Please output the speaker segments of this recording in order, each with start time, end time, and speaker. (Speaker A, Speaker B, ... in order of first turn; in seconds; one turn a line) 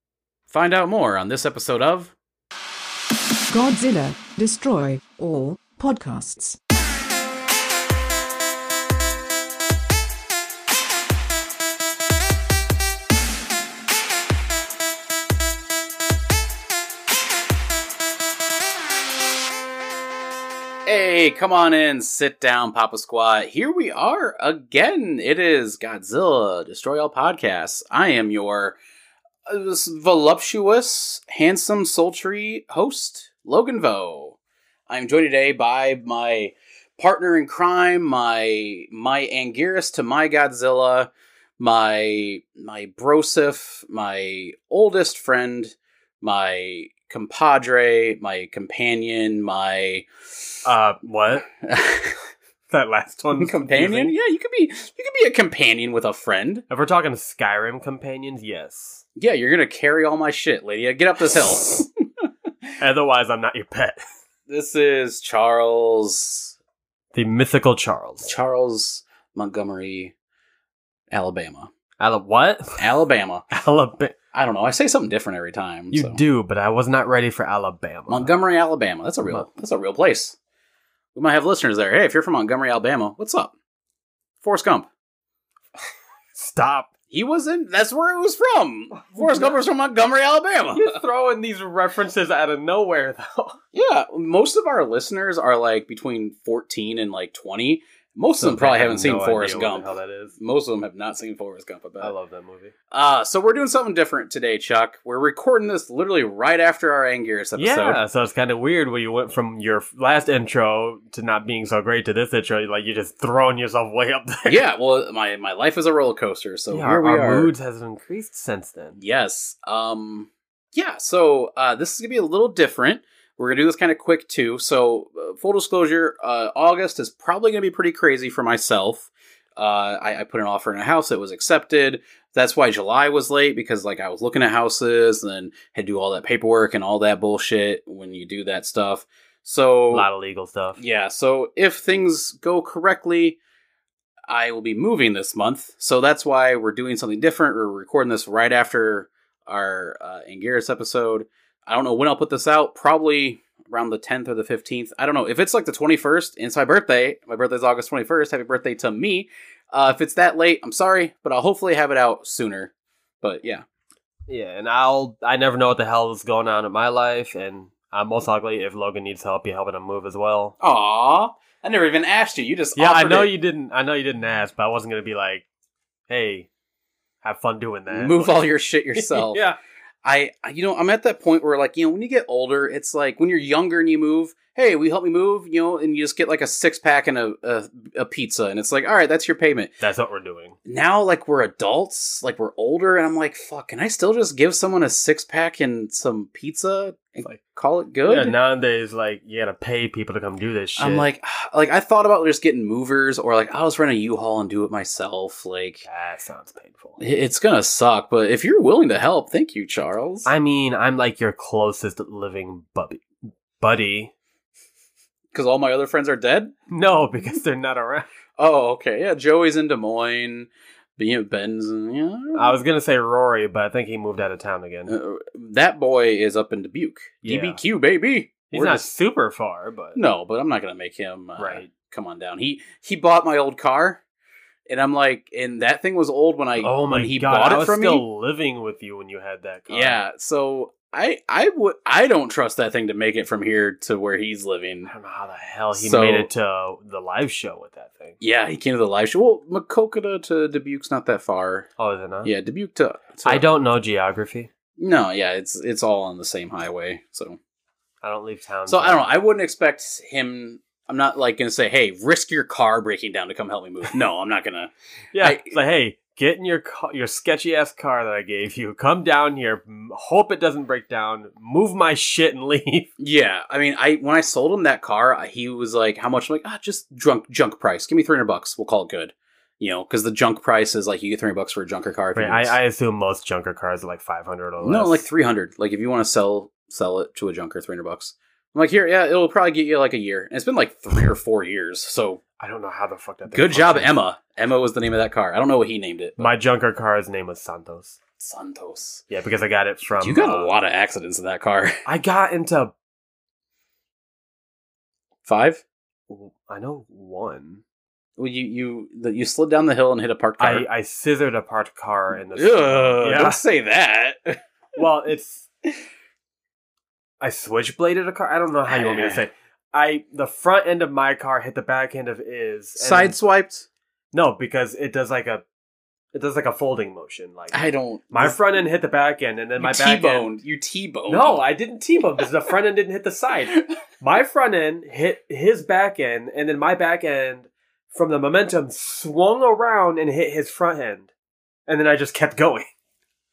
Speaker A: 0.5-2.1
Speaker B: 3.5-6.6
Speaker A: 20.9-28.8
Speaker A: 29.5-34.4
Speaker A: 34.9-50.1
Speaker C: 50.6-51.5
Speaker A: 51.6-52.2
Speaker C: 52.7-54.1
Speaker A: 53.3-56.6
Speaker C: 56.7-59.0
Speaker A: 59.1-62.2
Speaker C: 62.8-64.0
Speaker A: 64.5-66.5
Speaker C: 67.1-68.3
Speaker A: 68.2-70.1
Speaker A: 71.1-71.7
Speaker C: 72.0-72.8
Speaker A: 72.8-73.4
Speaker C: 73.5-74.2
Speaker A: 74.3-76.2
Speaker C: 75.9-78.3
Speaker A: 78.1-80.3
Speaker A: 81.1-83.5
Speaker A: 84.4-84.9
Speaker C: 86.3-86.9
Speaker A: 87.1-91.0
Speaker C: 89.0-89.6
Speaker C: 90.7-93.6
Speaker A: 93.7-102.1
Speaker C: 98.4-100.3
Speaker C: 102.0-102.7
Speaker A: 102.9-108.0
Speaker C: 107.6-114.6
Speaker A: 114.5-117.5
Speaker C: 116.7-119.0
Speaker A: 119.0-140.1
Speaker C: 139.9-140.8
Speaker A: 140.8-143.4
Speaker A: 144.3-163.6
Speaker C: 164.3-170.5
Speaker A: 170.6-173.3
Speaker C: 172.8-175.4
Speaker C: 176.1-176.5
Speaker C: 177.2-179.6
Speaker A: 177.9-179.4
Speaker A: 180.0-189.7
Speaker C: 189.8-190.6
Speaker A: 190.7-198.3
Speaker C: 198.0-201.1
Speaker A: 200.8-205.8
Speaker C: 205.8-207.0
Speaker A: 207.0-210.3
Speaker C: 210.2-213.1
Speaker C: 213.6-214.1
Speaker A: 215.3-216.5
Speaker C: 216.7-218.1
Speaker A: 218.4-222.5
Speaker C: 222.3-224.9
Speaker A: 224.9-228.9
Speaker C: 227.2-227.6
Speaker C: 228.5-230.0
Speaker A: 229.9-234.0
Speaker C: 231.4-231.7
Speaker A: 234.7-238.0
Speaker C: 236.6-240.0
Speaker A: 239.7-244.9
Speaker C: 244.9-248.2
Speaker A: 245.7-246.3
Speaker A: 248.2-251.7
Speaker C: 251.8-252.3
Speaker A: 252.2-253.5
Speaker C: 253.2-254.5
Speaker A: 254.8-257.4
Speaker C: 258.0-259.1
Speaker A: 258.7-265.5
Speaker C: 265.1-272.9
Speaker A: 273.0-282.6
Speaker C: 282.1-285.1
Speaker A: 284.6-292.2
Speaker C: 292.4-293.9
Speaker A: 293.3-296.3
Speaker C: 296.2-298.0
Speaker A: 298.2-299.0
Speaker C: 299.1-300.5
Speaker A: 299.9-301.8
Speaker C: 301.8-302.7
Speaker A: 305.2-305.6
Speaker C: 306.1-307.6
Speaker A: 308.2-310.6
Speaker C: 310.4-313.4
Speaker A: 312.3-314.4
Speaker C: 314.8-315.5
Speaker C: 317.2-323.1
Speaker A: 318.7-319.2
Speaker A: 322.8-323.7
Speaker C: 324.1-325.4
Speaker C: 326.1-330.3
Speaker A: 327.5-328.4
Speaker A: 329.6-331.4
Speaker C: 331.1-341.1
Speaker C: 341.7-342.7